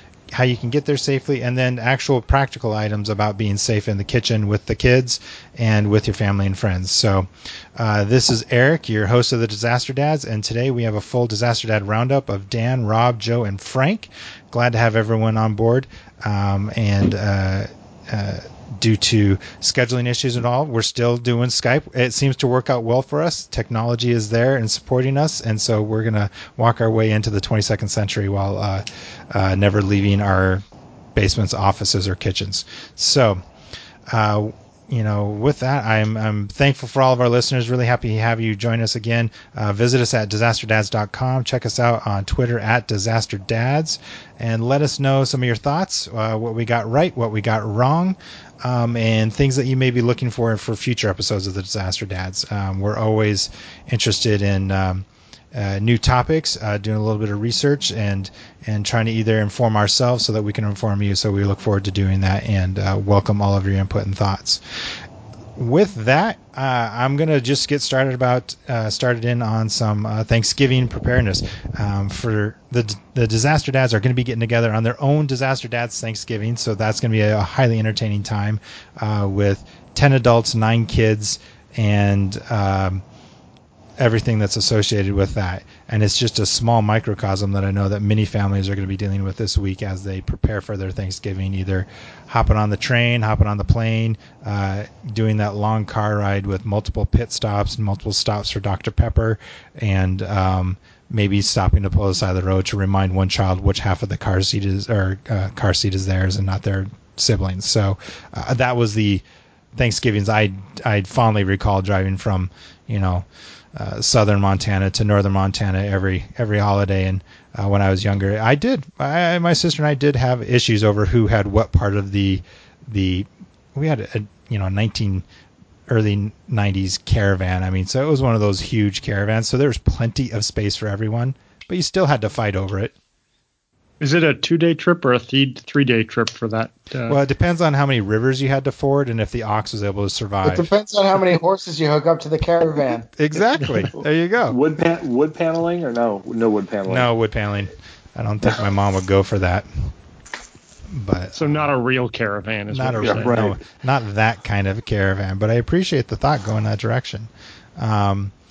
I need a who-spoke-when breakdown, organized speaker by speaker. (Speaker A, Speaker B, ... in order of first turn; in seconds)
Speaker A: 0.3-30.6, 31.1-33.4, 34.1-64.6, 65.6-83.0, 84.0-109.2, 109.7-125.2, 125.9-132.9, 137.1-140.7, 143.2-144.6, 146.9-149.9, 150.9-151.7, 152.7-158.3
Speaker B: 134.0-137.2, 151.3-153.4
Speaker C: 140.4-143.1
Speaker D: 144.5-147.1, 153.0-153.6